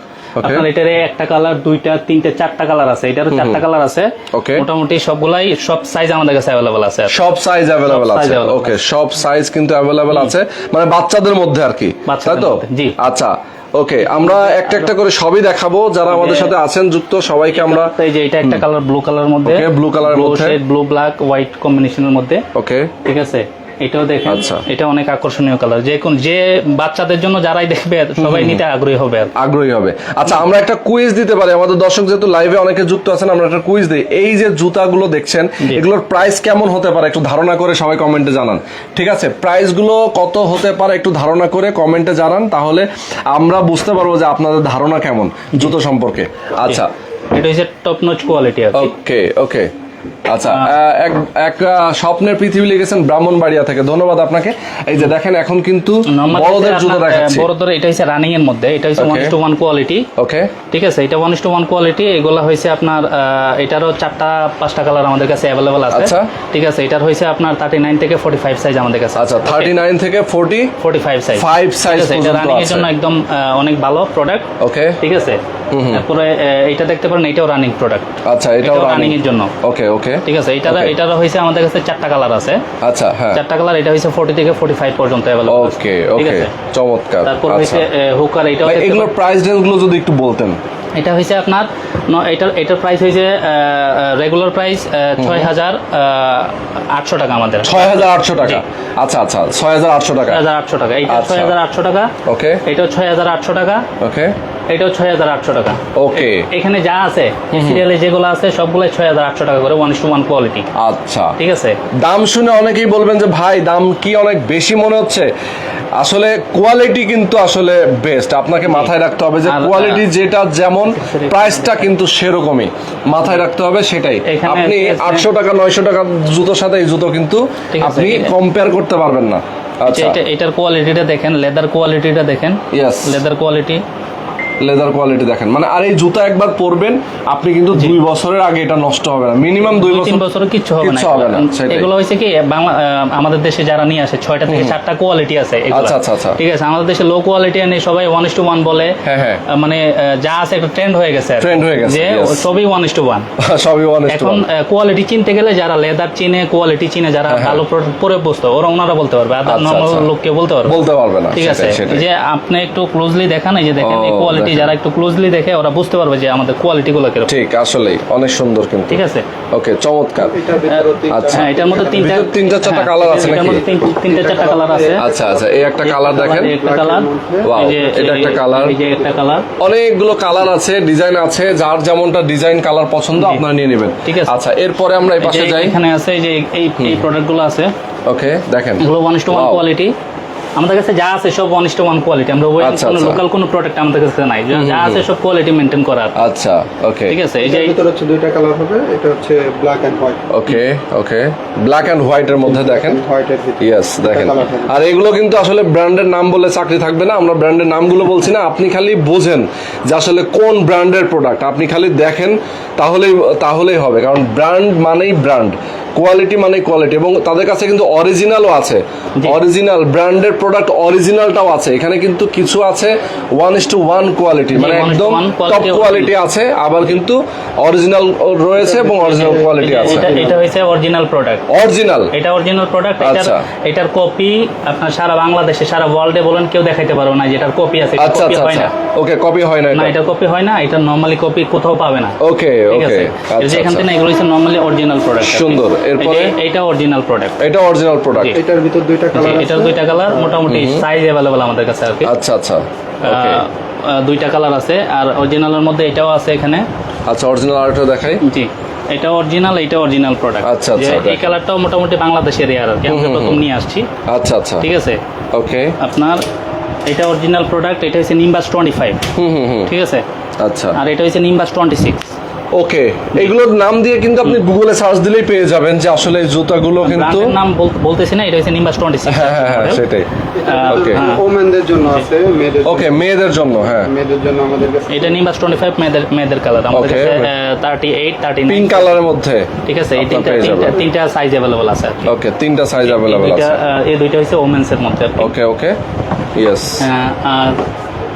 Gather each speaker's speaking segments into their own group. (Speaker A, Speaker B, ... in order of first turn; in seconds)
Speaker A: 0.4-0.7, 3.3-3.6, 4.3-4.6, 7.1-18.6, 19.4-20.6, 22.5-22.9, 24.2-24.6, 28.2-28.6, 29.4-46.9, 48.7-49.7, 50.3-57.5, 59.0-59.3, 60.2-60.5, 65.9-66.3, 69.2-70.7, 71.3-72.9, 74.6-75.0, 75.7-76.0, 78.2-80.9, 82.8-83.4, 85.5-87.8, 88.6-90.6, 95.2-95.5, 97.6-100.4, 101.1-101.5, 102.2-102.6, 104.0-104.3, 106.0-106.5, 107.5-107.8, 110.8-111.3, 112.0-115.3, 116.0-130.2, 132.7-133.2, 134.6-140.2, 140.8-141.9, 144.5-144.8, 145.7-146.4, 149.0-149.4, 151.4-152.4, 153.4-154.4, 157.3-157.6, 159.4-160.1, 160.6-162.0, 163.8-164.7, 167.2-170.3, 171.1-173.6, 175.0-176.5, 177.4-178.8, 179.6-185.8, 186.8-187.0, 188.1-189.6, 192.6-193.2, 194.5-195.0, 196.2-197.2, 200.3-203.0, 203.6-230.1, 231.5-232.1, 233.0-233.4, 238.0-239.9, 242.2-243.9, 245.2-246.3, 247.4-248.4, 250.5-250.8, 252.0-253.4, 257.1-258.2, 260.4-261.3, 262.9-263.4, 264.1-264.7, 265.3-265.8, 269.1-269.7, 270.4-270.8, 272.5-277.4, 279.1-280.1, 280.7-281.1, 282.6-283.9, 286.7-287.3, 288.5-290.8, 292.1-293.6, 295.2-295.8, 296.3-296.9
Speaker B: 0.4-7.1, 7.8-8.8, 12.1-12.9, 14.1-14.9, 16.1-16.5, 17.5-22.4, 23.0-29.3, 47.3-48.9, 50.5-50.7, 56.1-60.1, 60.7-69.7, 70.8-74.5, 75.0-79.5, 80.2-82.6, 83.3-86.5, 87.2-89.1, 91.0-97.8, 100.2-102.1, 102.6-103.9, 104.7-110.7, 111.4-111.8, 118.7-118.9, 119.4-120.0, 120.9-121.9, 124.2-125.3, 127.7-128.3, 129.8-133.8, 139.6-149.0, 149.5-153.3, 154.1-160.8, 161.3-167.3, 168.9-169.3, 170.7-175.0, 175.8-179.5, 183.2-183.4, 184.0-184.3, 185.2-187.7, 188.8-189.9, 190.6-196.2, 197.1-197.8, 224.5-226.2, 229.1-231.4, 232.1-238.7, 239.7-242.2, 242.7-247.4, 248.1-248.4, 249.1-252.1, 253.0-256.6, 258.2-263.9, 264.6-265.0, 265.8-266.2, 266.9-269.1, 269.7-270.0, 270.7-272.1, 276.8-279.8, 280.4-281.2, 284.9-289.0, 289.6-292.1, 292.8-295.3, 296.8-297.6
Speaker C: 170.2-172.2, 173.0-178.0, 178.8-179.2, 197.4-200.2, 202.3-204.8, 228.6-230.4, 248.3-250.4, 280.3-283.1, 283.6-285.2, 290.4-290.9